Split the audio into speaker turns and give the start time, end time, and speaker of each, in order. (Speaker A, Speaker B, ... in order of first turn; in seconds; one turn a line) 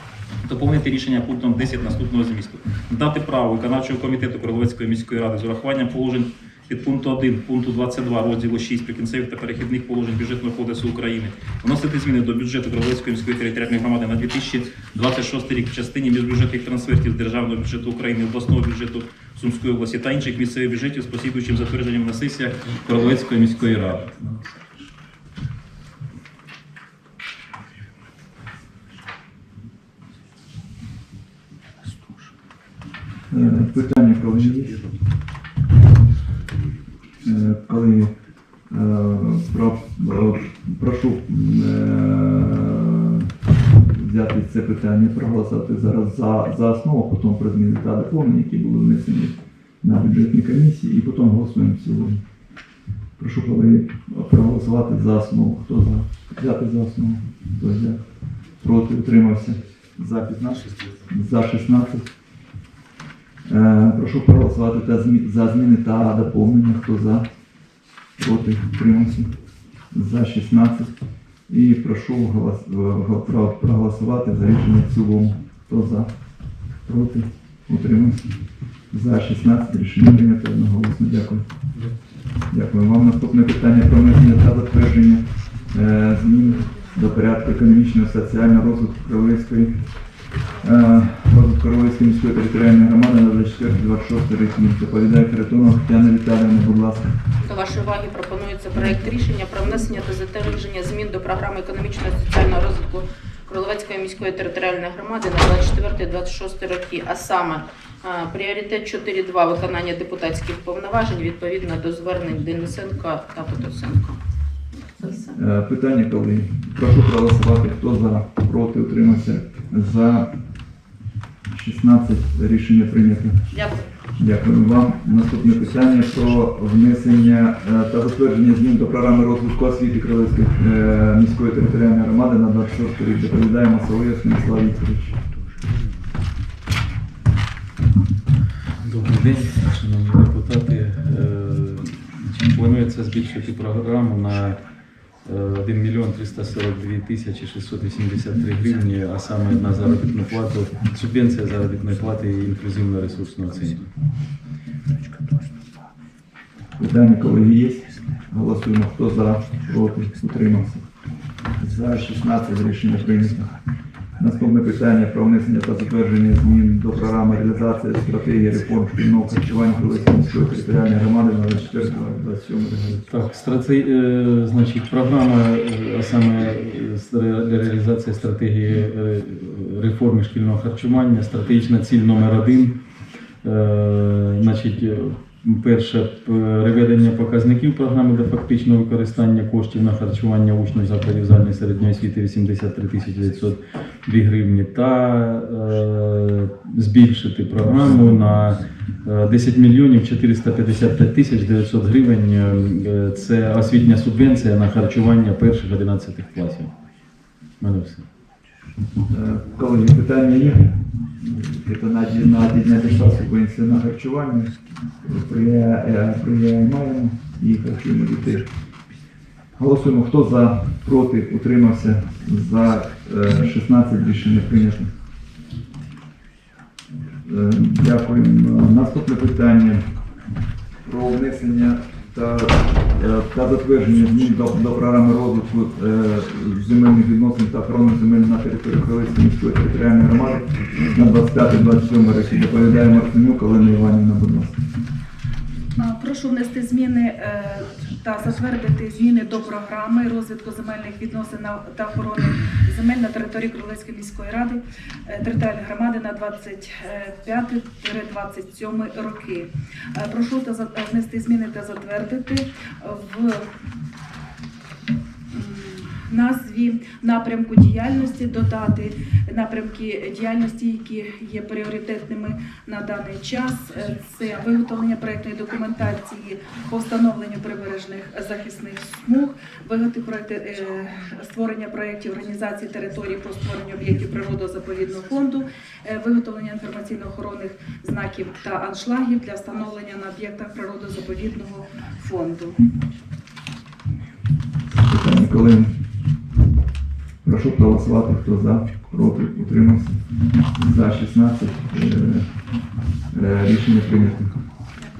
Speaker A: 0.5-24.4
Speaker B: 33.3-34.9
Speaker B: 37.2-38.1
Speaker B: 38.7-52.2
Speaker B: 53.2-58.0
Speaker B: 58.6-62.1
Speaker B: 63.5-67.3
Speaker B: 68.2-69.3
Speaker B: 69.9-70.9
Speaker B: 71.5-76.1
Speaker B: 76.8-78.2
Speaker B: 78.9-81.4
Speaker B: 82.5-89.9
Speaker B: 90.6-97.2
Speaker C: 97.4-114.2
Speaker C: 115.0-115.3
Speaker B: 115.3-120.3
Speaker B: 121.5-123.5
Speaker C: 123.5-123.8
Speaker B: 124.2-135.1
Speaker D: 138.8-153.9
Speaker B: 156.8-160.8
Speaker B: 161.6-163.5
Speaker B: 164.2-173.1
Speaker D: 173.1-206.7
Speaker D: 207.6-208.1
Speaker B: 209.1-218.5
Speaker B: 219.6-224.9
Speaker B: 227.2-229.9
Speaker B: 230.8-244.6
Speaker E: 245.8-263.4
Speaker E: 265.3-292.6
Speaker B: 294.9-295.7
Speaker B: 297.2-300.0
Speaker B: 300.5-302.3
Speaker B: 303.1-304.3